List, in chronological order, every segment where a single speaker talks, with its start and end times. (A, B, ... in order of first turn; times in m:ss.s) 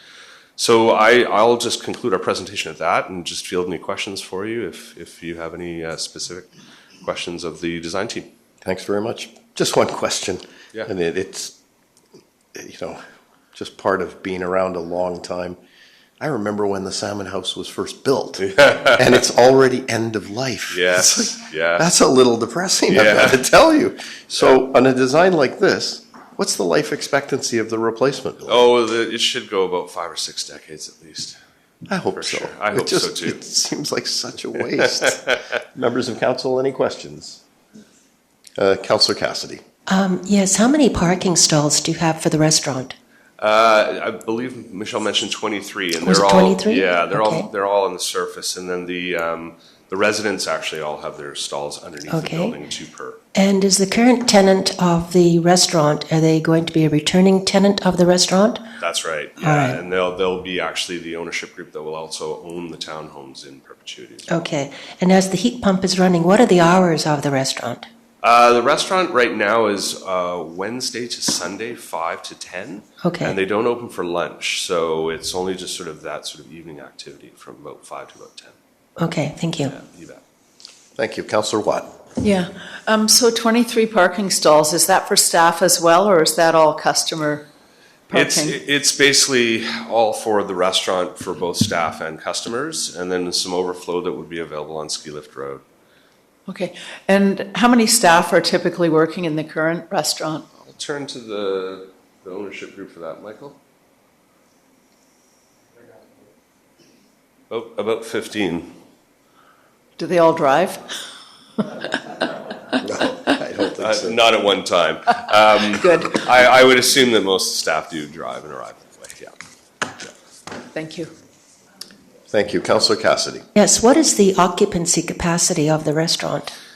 0:00.6-0:06.5 A
0:07.0-0:08.3 A
0:08.6-0:11.5 B
0:12.5-0:13.0 B
0:13.5-0:15.6 B
0:16.2-0:18.4 B
0:18.4-0:19.2 A
0:19.0-0:28.6 B
0:20.7-0:21.9 A
0:22.9-0:23.4 A
0:28.5-0:31.4 A
0:31.9-0:35.2 B
0:32.1-0:33.4 A
0:35.0-0:35.3 A
0:35.7-0:37.4 B
0:38.6-0:39.6 B
0:39.9-0:42.9 C
0:43.4-0:53.2 A
0:46.0-0:47.5 C
0:52.1-0:52.6 C
0:53.3-0:58.6 C
0:58.8-1:04.4 A
0:59.4-0:59.8 C
1:04.3-1:07.8 C
1:08.2-1:18.5 A
1:13.0-1:13.4 C
1:19.0-1:19.7 C
1:19.6-1:20.2 A
1:21.0-1:21.9 B
1:22.2-1:27.4 D
1:28.1-1:28.6 D
1:28.1-1:35.6 A
1:36.5-1:40.4 D
1:40.6-1:43.6 A
1:47.5-1:48.7 A
1:50.0-1:50.9 D
1:52.8-1:54.2 B
1:53.8-1:59.4 A
1:55.8-1:56.1 D
2:00.7-2:01.1 D
2:02.3-2:03.4 B
2:03.5-2:06.5 C